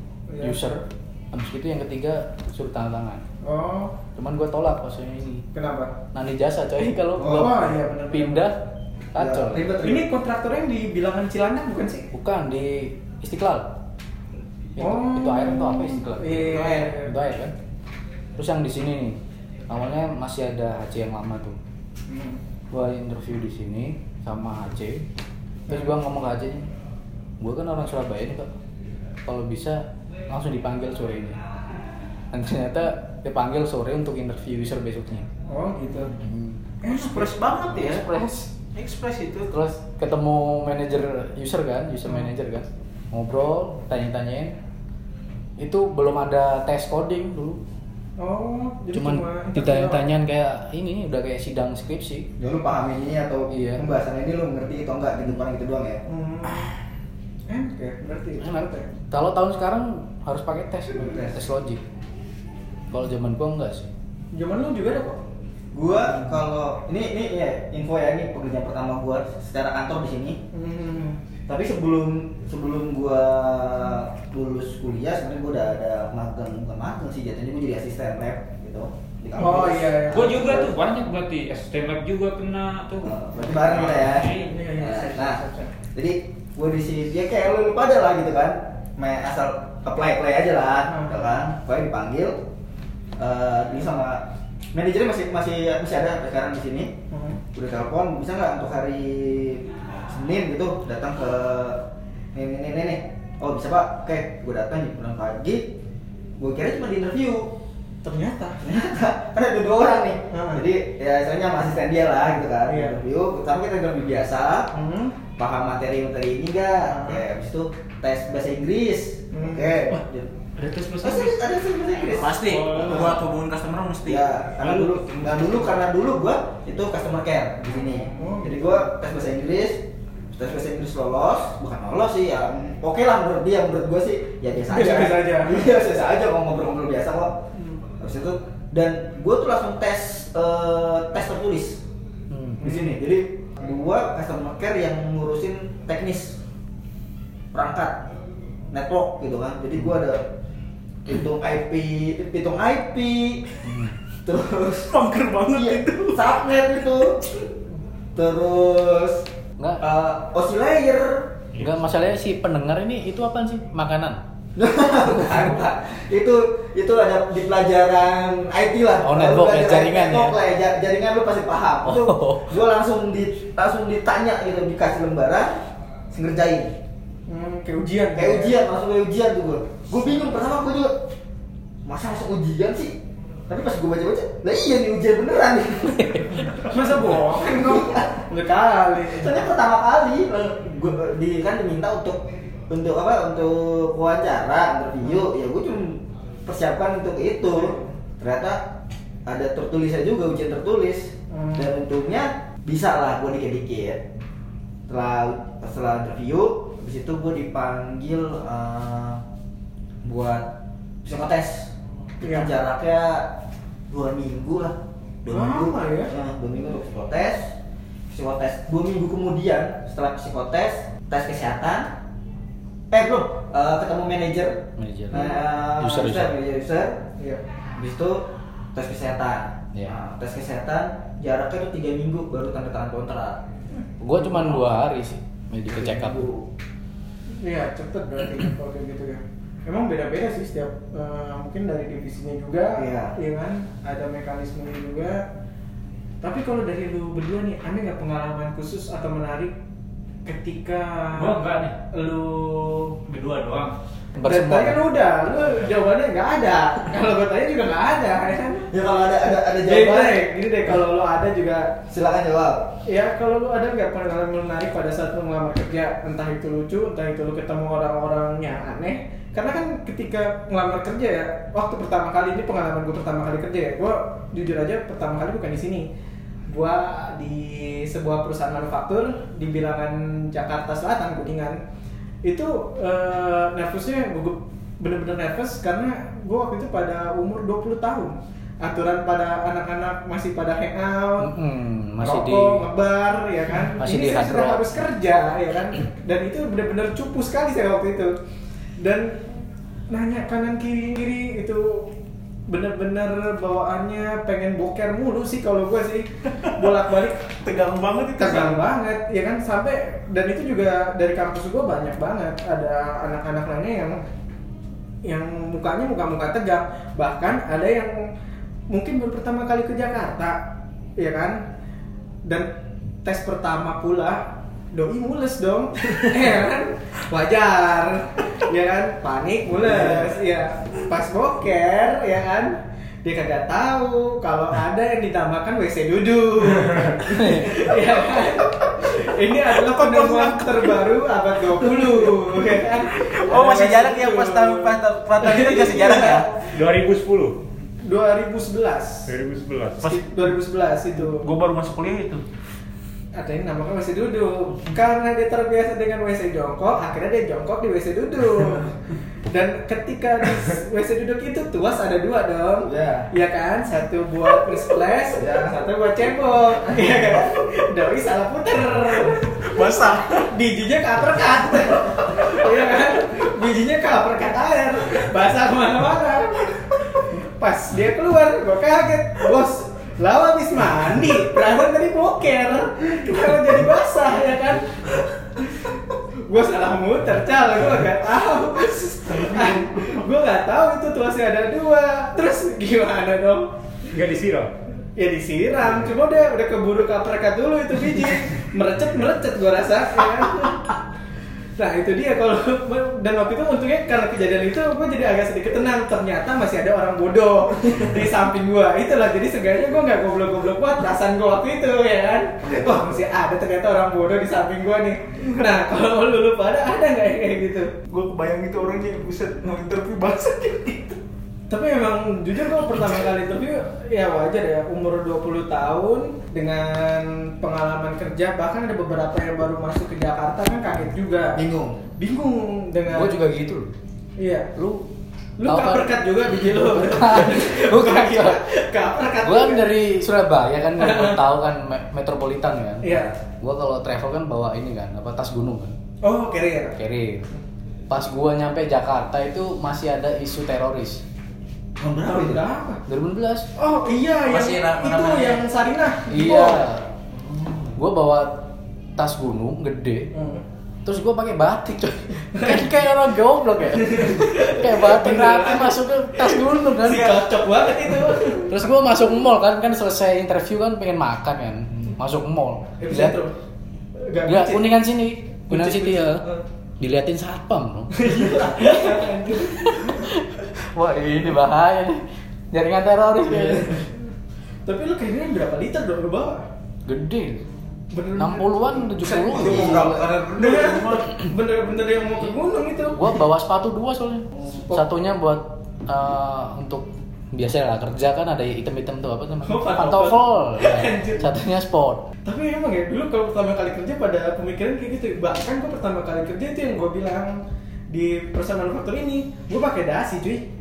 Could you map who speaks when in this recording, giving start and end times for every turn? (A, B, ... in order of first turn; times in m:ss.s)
0:00.3-0:00.8 A
0:00.4-0:03.2 B
0:03.4-0:04.0 A
0:04.2-0:05.4 B
0:05.5-0:05.9 A
0:06.1-0:08.6 B
0:07.2-0:08.5 A
0:09.1-0:09.8 B
0:09.2-0:10.0 C
0:09.6-0:12.1 A
0:12.1-0:13.7 B
0:14.8-0:17.5 B
0:14.8-0:17.1 A
0:18.4-0:19.2 B
0:19.7-0:21.6 B
0:22.1-0:22.4 A
0:22.7-0:25.0 B
0:25.7-0:26.7 B
0:27.4-0:28.5 B
0:29.2-0:31.4 B
0:32.3-0:35.3 B
0:35.5-0:36.1 A
0:36.2-0:36.6 B
0:36.8-0:38.2 D
0:36.8-0:37.3 A
0:37.6-0:38.5 B
0:38.7-0:39.5 D
0:39.5-0:44.6 B
0:45.6-0:47.6 B
0:48.2-0:50.0 A
0:48.9-0:52.3 B
0:52.4-0:56.0 C
0:53.5-0:53.8 B
0:56.0-0:56.7 A
0:57.5-0:58.9 A
0:58.4-1:01.8 B
1:01.0-1:01.3 C
1:02.9-1:03.9 B
1:04.3-1:05.2 A
1:05.7-1:10.4 C
1:10.5-1:11.2 A
1:11.5-1:20.7 C
1:19.4-1:20.5 A
1:20.1-1:24.6 E
1:23.0-1:25.4 C
1:24.3-1:25.7 A
1:25.9-1:32.4 C
1:30.9-1:31.2 A
1:33.2-1:36.9 C
1:37.1-1:37.4 A
1:37.5-1:41.8 C
1:42.3-1:45.7 C
1:46.4-1:47.5 C
1:48.0-1:48.6 A
1:48.6-1:54.7 C
1:50.3-1:50.6 A
1:52.7-1:53.0 A
1:54.7-1:55.2 A
1:55.4-2:00.3 C
1:56.9-1:57.2 A
1:59.3-1:59.8 A
2:00.6-2:01.4 E
2:01.0-2:03.2 C
2:02.1-2:04.3 D
2:02.4-2:03.2 E
2:04.0-2:17.4 C
2:04.6-2:05.8 E
2:08.2-2:08.7 A
2:14.7-2:15.7 A
2:18.0-2:21.8 C
2:22.3-2:22.6 B
2:22.6-2:26.4 C
2:22.6-2:22.9 A
2:27.5-2:28.1 C
2:28.7-2:30.3 C
2:31.0-2:33.4 C
2:33.6-2:33.9 B
2:34.2-2:34.9 C
2:34.9-2:36.3 D
2:35.5-2:37.2 C
2:38.1-2:39.3 C
2:39.8-2:41.4 C
2:41.5-2:42.0 E
2:41.6-2:44.2 B
2:44.6-2:56.8 C
2:49.0-2:50.4 B
2:51.8-2:52.6 B
2:57.3-2:58.5 A
2:58.1-3:00.9 C
3:01.8-3:03.0 C
3:03.5-3:06.5 C
3:06.6-3:09.4 A
3:07.0-3:08.2 C
3:09.1-3:18.6 C
3:17.4-3:17.9 A
3:19.2-3:24.0 C
3:21.3-3:21.7 A
3:24.9-3:29.2 C
3:30.0-3:33.3 C
3:32.2-3:32.5 A
3:33.9-3:37.6 C
3:35.3-3:36.1 A
3:38.1-3:41.9 C
3:42.9-3:47.0 C
3:44.8-3:46.4 B
3:45.1-3:45.4 A
3:47.8-3:53.4 C
3:54.0-3:56.3 B
3:54.1-3:54.6 A
3:55.7-3:56.5 C
3:57.4-4:05.2 A
4:02.7-4:03.1 C
4:06.2-4:09.5 A
4:10.2-4:13.0 A
4:11.1-4:11.8 E
4:13.0-4:13.7 E
4:14.2-4:14.9 B
4:14.2-4:18.7 A
4:18.7-4:20.3 C
4:19.3-4:21.8 A
4:21.9-4:22.7 C
4:22.8-4:35.9 A
4:36.5-4:41.6 A
4:42.2-4:51.3 A
4:51.2-4:52.6 B
4:52.0-4:58.1 A
4:53.8-4:54.8 B
4:58.8-4:59.3 A
4:59.9-5:01.9 A
5:02.5-5:07.3 A
5:06.4-5:06.7 D
5:07.3-5:08.7 D
5:08.2-5:14.0 A
5:15.0-5:18.0 A
5:18.7-5:20.4 A
5:21.0-5:21.4 A
5:22.2-5:22.5 A
5:23.0-5:46.5 A
5:37.1-5:37.5 B
5:39.6-5:40.9 D
5:41.8-5:47.4 D
5:47.8-5:49.1 A
5:49.1-5:50.0 D
5:49.8-5:51.3 A
5:50.9-5:52.2 D
5:53.1-6:09.4 A
6:02.6-6:03.1 C
6:05.1-6:05.6 C
6:06.7-6:07.3 C
6:09.4-6:10.2 D
6:10.2-6:25.7 A
6:26.2-6:33.5 A
6:29.2-6:30.0 D
6:33.9-6:34.5 D
6:35.0-6:40.7 A
6:41.6-6:57.7 A
6:57.9-7:01.0 D
7:01.5-7:11.4 A
7:11.3-7:11.9 C
7:12.0-7:13.2 A
7:12.9-7:13.7 B
7:14.2-7:14.5 A
7:14.5-7:14.8 B
7:15.4-7:19.7 A
7:15.4-7:18.4 B
7:19.2-7:25.7 B
7:20.8-7:21.2 A
7:22.8-7:23.1 A
7:26.0-7:26.8 A
7:26.7-7:27.3 B
7:27.9-7:31.0 B
7:31.8-7:32.4 C
7:32.0-7:32.8 A
7:32.9-7:33.5 B
7:33.6-7:36.7 A
7:34.3-7:35.4 D
7:36.1-7:36.8 B
7:37.1-7:37.7 C
7:37.8-7:40.1 B
7:40.1-7:40.4 A
7:40.8-7:47.3 B
7:42.4-7:42.6 A
7:43.7-7:48.7 A
7:48.3-7:53.2 B
7:52.8-7:53.3 A
7:54.0-7:54.8 A
7:54.2-7:56.3 B
7:55.5-7:56.4 A
7:56.8-8:03.8 B
7:57.9-7:59.9 A
8:04.6-8:06.4 A
8:06.8-8:07.4 B
8:07.9-8:13.1 A
8:08.1-8:10.0 B
8:09.2-8:11.1 D
8:09.3-8:10.8 C
8:12.9-8:22.1 B
8:14.5-8:14.8 A
8:19.4-8:21.3 A
8:22.2-8:27.4 A
8:27.9-8:30.4 A